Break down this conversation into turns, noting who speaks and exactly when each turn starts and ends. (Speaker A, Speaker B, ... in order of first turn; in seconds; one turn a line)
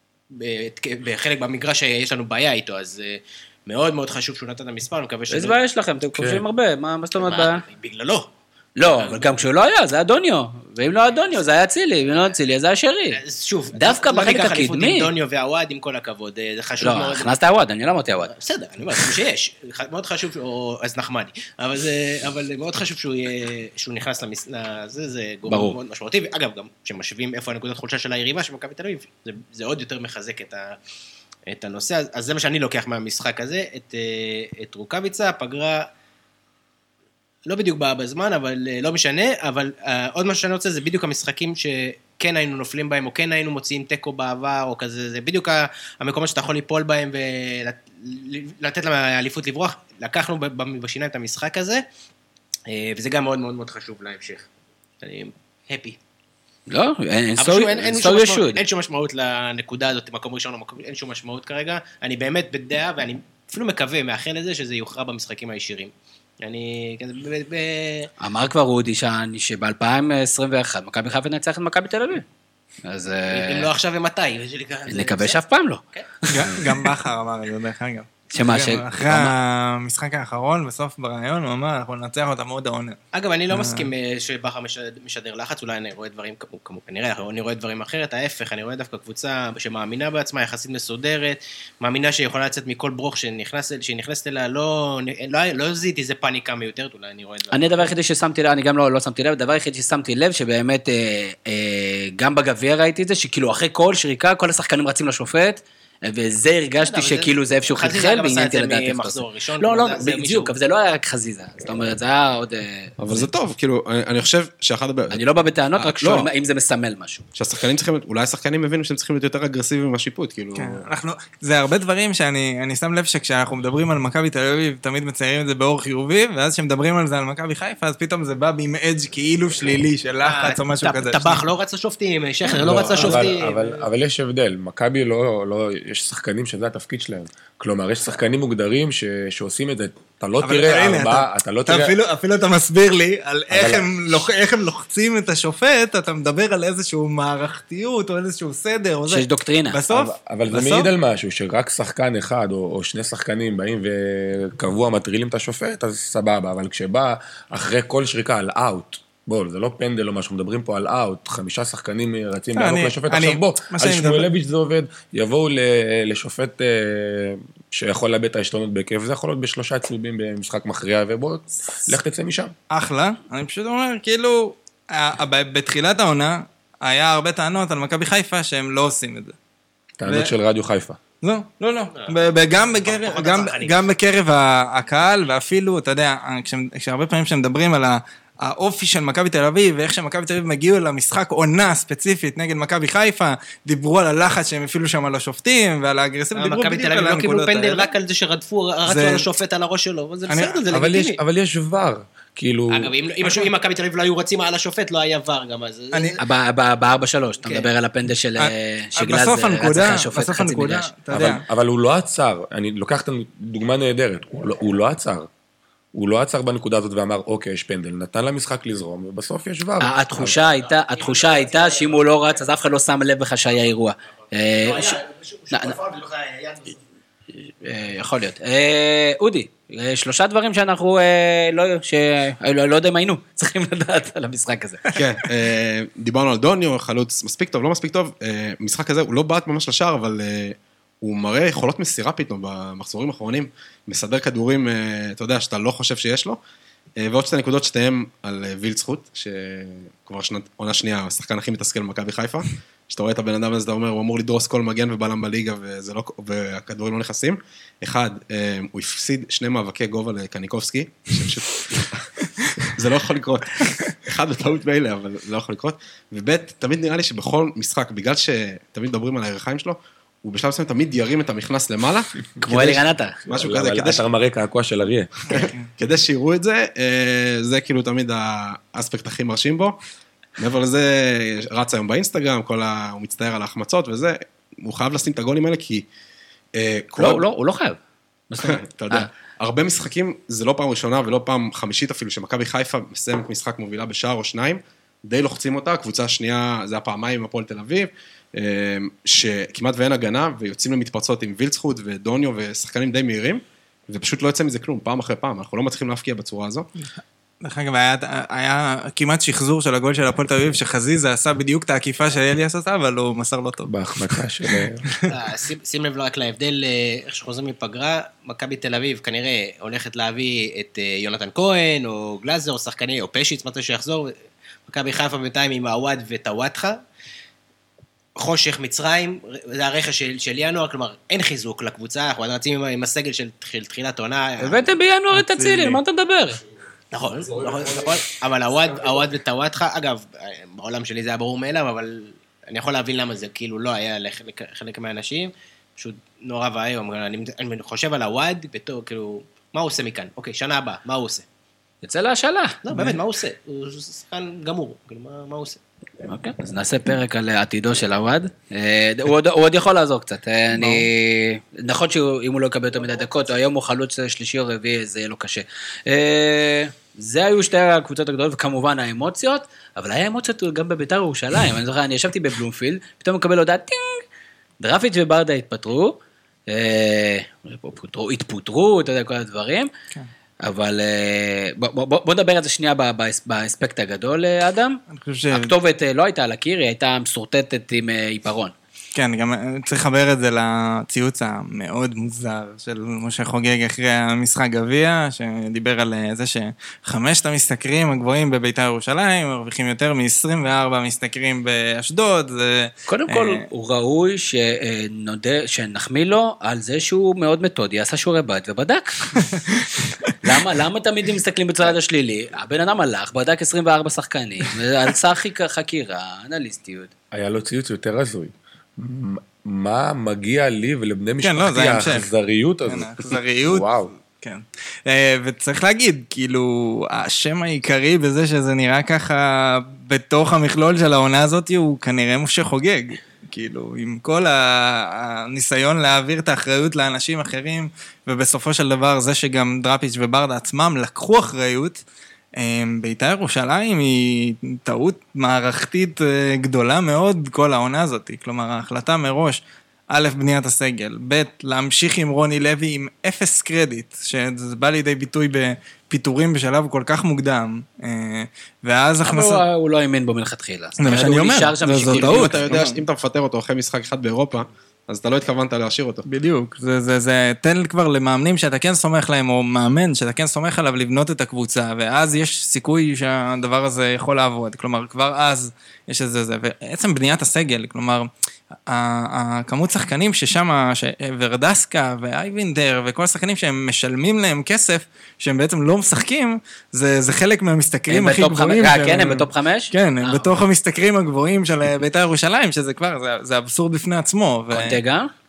Speaker A: 0.3-5.6
Speaker B: 5.3-7.6
Speaker C: 6.2-6.4
Speaker A: 7.2-9.4
Speaker B: 8.8-13.2
Speaker A: 13.1-17.4
Speaker B: 13.7-15.1
Speaker B: 16.8-18.3
Speaker A: 18.3-30.8
Speaker B: 25.5-25.8
Speaker A: 31.5-35.9
Speaker A: 37.5-51.8
Speaker A: 52.7-54.5
Speaker A: 55.0-56.0
Speaker B: 56.7-58.6
Speaker A: 57.4-68.1
Speaker B: 68.2-72.2
Speaker B: 72.8-73.7
Speaker A: 73.3-75.4
Speaker B: 74.9-76.7
Speaker A: 75.9-76.6
Speaker D: 76.3-83.0
Speaker B: 78.3-79.3
Speaker A: 83.1-97.7
Speaker D: 83.5-83.9
Speaker B: 97.5-113.3
Speaker A: 106.8-110.5
Speaker E: 113.0-115.2
Speaker B: 115.1-117.2
Speaker E: 115.7-116.3
Speaker E: 117.3-120.8
Speaker D: 120.5-131.4
Speaker A: 130.2-133.6
Speaker D: 132.5-133.6
Speaker C: 132.6-141.9
Speaker D: 140.4-150.9
Speaker C: 143.5-143.9
Speaker B: 149.1-149.8
Speaker C: 149.9-172.5
Speaker D: 162.5-164.3
Speaker D: 172.7-179.3
Speaker C: 180.0-181.0
Speaker D: 180.0-180.3
Speaker D: 181.2-197.9
Speaker A: 181.9-183.8
Speaker A: 196.3-201.2
Speaker D: 198.8-199.2
Speaker D: 200.3-200.6
Speaker C: 200.7-202.9
Speaker A: 202.7-206.2
Speaker D: 205.9-206.2
Speaker B: 206.2-210.9
Speaker D: 208.4-211.4
Speaker C: 211.1-215.3
Speaker C: 215.9-220.3
Speaker B: 219.8-225.8
Speaker A: 220.3-222.0
Speaker A: 224.6-226.8
Speaker B: 227.4-234.9
Speaker E: 234.9-246.4
Speaker E: 247.0-274.0
Speaker B: 272.4-273.2
Speaker C: 273.3-275.5
Speaker E: 275.3-279.8
Speaker E: 280.4-285.9
Speaker E: 286.5-287.3
Speaker B: 287.0-287.8
Speaker B: 288.3-289.1
Speaker E: 288.4-306.7
Speaker D: 307.4-315.0
Speaker C: 313.6-314.9
Speaker A: 315.1-324.1
Speaker A: 324.6-326.8
Speaker A: 328.1-334.7
Speaker B: 334.4-336.4
Speaker D: 335.1-335.8
Speaker A: 336.9-351.2
Speaker B: 351.8-352.6
Speaker A: 352.6-355.6
Speaker D: 352.7-353.0
Speaker B: 356.0-374.0
Speaker D: 360.6-360.9
Speaker B: 374.6-379.7
Speaker B: 380.4-384.8
Speaker D: 384.9-385.5
Speaker B: 385.3-388.5
Speaker D: 388.9-403.4
Speaker B: 402.9-409.3
Speaker D: 409.5-410.1
Speaker B: 410.2-416.9
Speaker C: 417.1-423.9
Speaker D: 421.2-422.1
Speaker D: 422.7-423.7
Speaker D: 424.2-441.8
Speaker D: 442.3-459.4
Speaker B: 459.0-462.5
Speaker D: 460.8-462.8
Speaker E: 461.8-466.0
Speaker D: 466.1-478.1
Speaker D: 478.6-494.8
Speaker B: 487.9-490.3
Speaker B: 494.5-495.1